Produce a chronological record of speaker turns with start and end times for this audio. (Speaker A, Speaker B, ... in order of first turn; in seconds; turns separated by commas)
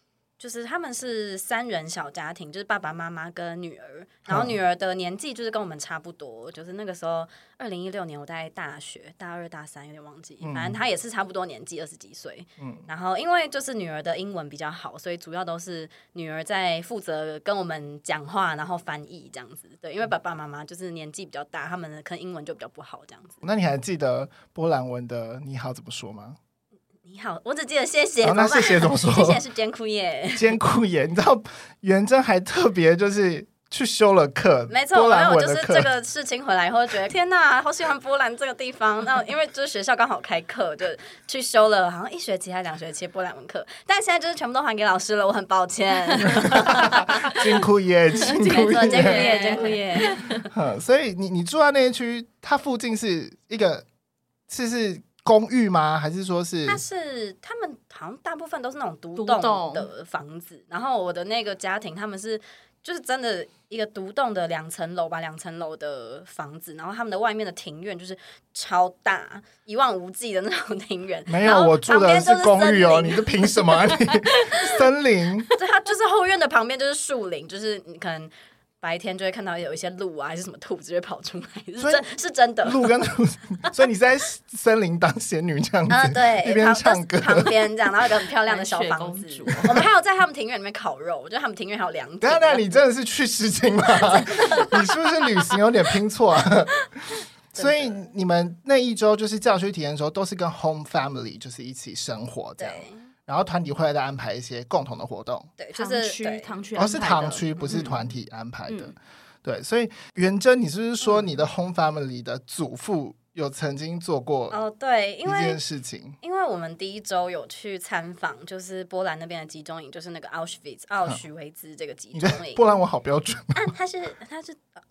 Speaker A: 0.4-23.4, Speaker B: 4.3-4.5, Speaker B: 10.4-10.8, Speaker B: 12.6-12.9, Speaker B: 23.4-26.4, Speaker A: 27.1-30.6, Speaker B: 28.2-29.4, Speaker B: 30.4-35.9, Speaker A: 34.7-47.5, Speaker B: 46.3-49.3, Speaker A: 48.2-50.2, Speaker C: 48.5-50.4, Speaker B: 50.5-53.9, Speaker B: 54.5-56.8, Speaker A: 56.7-73.7, Speaker C: 59.2-59.9, Speaker B: 71.3-75.5, Speaker A: 75.6-83.0, Speaker B: 81.8-82.1, Speaker B: 82.6-87.6, Speaker A: 85.9-92.8, Speaker C: 88.4-89.8, Speaker B: 92.2-105.5, Speaker A: 94.0-94.9, Speaker A: 97.5-98.0, Speaker A: 102.6-103.0, Speaker A: 105.6-106.6, Speaker C: 105.7-107.6, Speaker B: 106.8-114.6, Speaker A: 107.7-108.0, Speaker C: 108.7-109.0, Speaker A: 111.0-111.4, Speaker A: 114.5-115.6, Speaker B: 115.2-116.2, Speaker A: 116.2-122.7, Speaker B: 122.1-123.7, Speaker A: 123.5-124.6